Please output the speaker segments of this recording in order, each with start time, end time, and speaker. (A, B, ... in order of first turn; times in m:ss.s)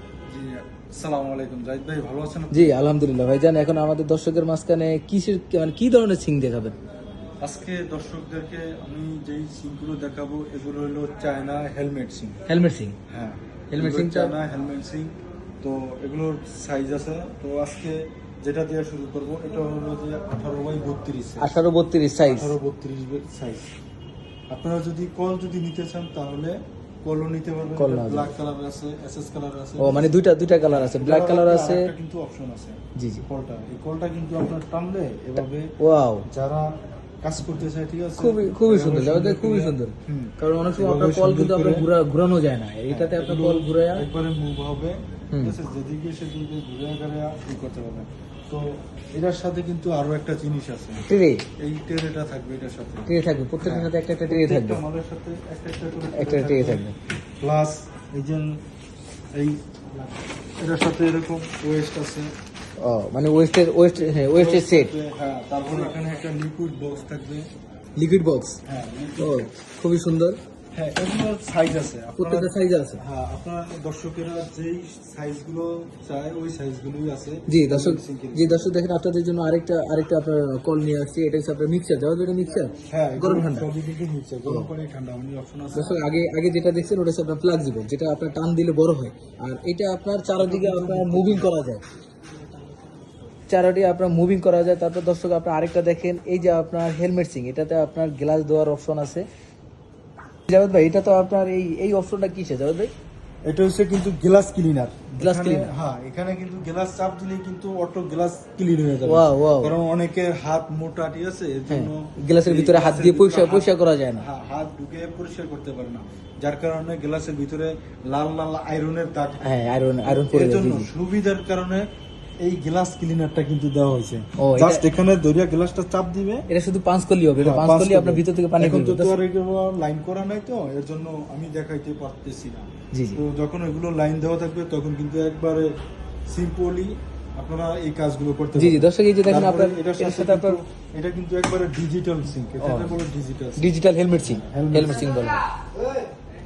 0:00.3-0:02.8 A
0:02.5-0:06.8 B
0:07.4-0:12.4 A
0:12.5-0:13.0 B
0:13.1-0:21.6 A
0:13.7-0:14.4 B
0:21.4-0:22.5 B
0:22.2-0:23.7 A
0:24.5-0:35.7 A
0:27.8-0:28.3 B
0:29.8-0:31.9 B
0:33.0-0:33.3 B
0:35.8-0:36.3 B
0:36.3-0:36.7 A
0:37.2-0:41.9 A
0:38.2-0:44.1 B
0:42.9-0:51.1 A
0:45.3-0:45.6 B
0:51.1-0:51.4 B
0:51.6-0:53.1 A
0:53.1-0:54.8 B
0:53.6-0:56.9 A
0:56.1-0:56.9 B
0:57.4-0:58.6 A
0:59.3-1:02.3 A
1:02.8-1:04.9 B
1:04.0-1:07.5 A
1:08.0-1:08.6 B
1:08.7-1:09.6 A
1:09.2-1:10.4 B
1:10.7-1:18.8 A
1:12.2-1:13.0 B
1:17.5-1:23.7 B
1:22.9-1:26.1 A
1:25.7-1:31.8 B
1:30.4-1:31.5 A
1:33.5-1:39.2 B
1:40.5-1:42.9 B
1:43.5-1:59.5 A
1:45.2-1:45.7 B
1:49.1-1:49.8 B
1:51.7-1:54.3 B
1:59.4-2:00.9 B
2:00.0-2:01.9 A
2:02.4-2:06.4 A
2:04.4-2:04.8 B
2:06.5-2:09.1 B
2:07.4-2:15.7 A
2:12.9-2:13.2 B
2:16.3-2:25.1 A
2:18.6-2:20.6 B
2:22.6-2:23.0 B
2:23.6-2:25.4 B